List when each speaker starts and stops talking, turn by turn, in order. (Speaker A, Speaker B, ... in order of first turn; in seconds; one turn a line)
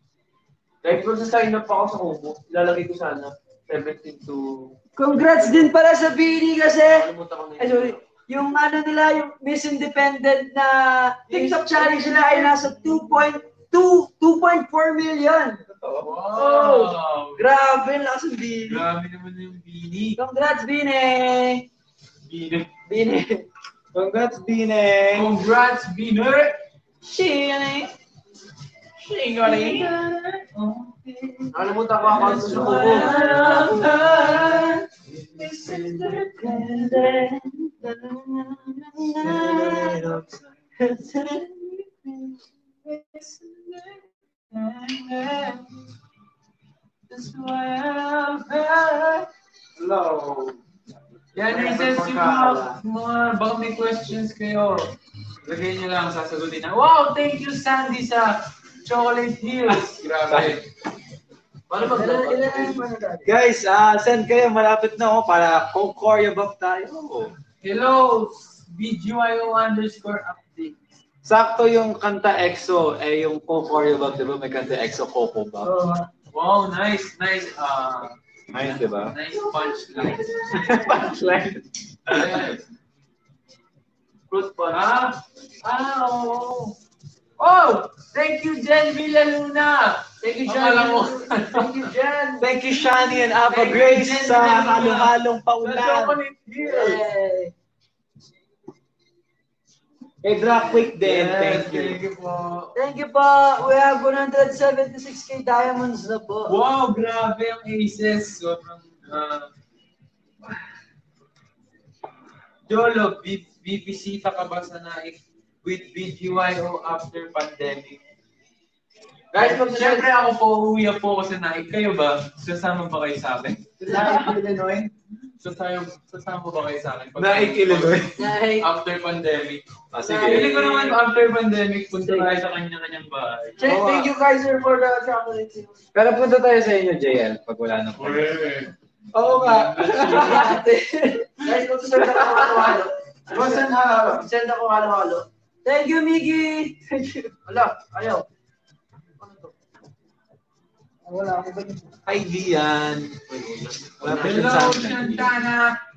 Speaker A: 0.8-4.8
Speaker B: 5.0-15.6
Speaker A: 6.8-8.1
Speaker C: 11.3-12.6
Speaker D: 15.7-16.1
Speaker C: 16.0-17.5
Speaker B: 16.4-18.8
Speaker C: 18.7-20.2
Speaker B: 20.2-21.7
Speaker C: 22.2-22.7
Speaker B: 22.9-23.5
Speaker D: 23.9-25.4
Speaker C: 25.1-26.6
Speaker B: 27.0-27.9
Speaker C: 29.0-30.0
Speaker B: 29.5-30.3
Speaker A: 31.5-33.2
Speaker C: 32.0-34.7
Speaker B: 32.5-34.7
Speaker D: 35.1-36.6
Speaker B: 35.4-37.7
Speaker C: 35.5-36.6
Speaker B: 39.1-40.0
Speaker D: 39.2-40.4
Speaker B: 40.8-41.9
Speaker C: 44.6-45.6
Speaker C: 47.1-49.2
Speaker D: 49.8-50.6
Speaker C: 51.4-54.9
Speaker D: 51.4-52.8
Speaker C: 55.5-60.6
Speaker D: 60.3-60.6
Speaker A: 61.7-62.8
Speaker B: 61.8-63.3
Speaker D: 63.2-67.3
Speaker C: 67.6-70.8
Speaker D: 71.2-75.7
Speaker B: 75.6-76.0
Speaker C: 76.2-81.1
Speaker D: 78.5-79.2
Speaker B: 79.4-80.9
Speaker D: 80.5-82.5
Speaker C: 82.1-82.7
Speaker A: 84.3-84.8
Speaker C: 84.7-86.8
Speaker C: 87.4-91.9
Speaker B: 90.2-92.0
Speaker A: 92.1-92.4
Speaker D: 92.4-96.2
Speaker C: 93.5-97.0
Speaker B: 96.6-97.5
Speaker D: 100.2-102.0
Speaker C: 101.0-102.7
Speaker B: 102.8-106.5
Speaker C: 106.5-109.5
Speaker C: 112.7-118.0
Speaker A: 119.3-120.1
Speaker C: 119.4-123.6
Speaker D: 123.8-124.9
Speaker B: 123.9-124.4
Speaker C: 125.4-133.6
Speaker D: 127.2-128.2
Speaker B: 128.2-128.7
Speaker D: 129.9-130.7
Speaker B: 130.1-130.9
Speaker B: 132.0-132.4
Speaker A: 133.6-135.8
Speaker D: 133.6-134.1
Speaker D: 135.9-138.4
Speaker C: 138.0-138.7
Speaker D: 139.1-140.5
Speaker C: 139.2-140.6
Speaker B: 140.1-141.3
Speaker A: 141.4-145.3
Speaker D: 143.3-144.3
Speaker B: 145.6-147.4
Speaker A: 147.4-148.3
Speaker A: 149.2-149.6
Speaker B: 151.1-151.9
Speaker D: 152.1-153.4
Speaker A: 153.4-154.8
Speaker D: 154.0-155.3
Speaker C: 154.1-155.8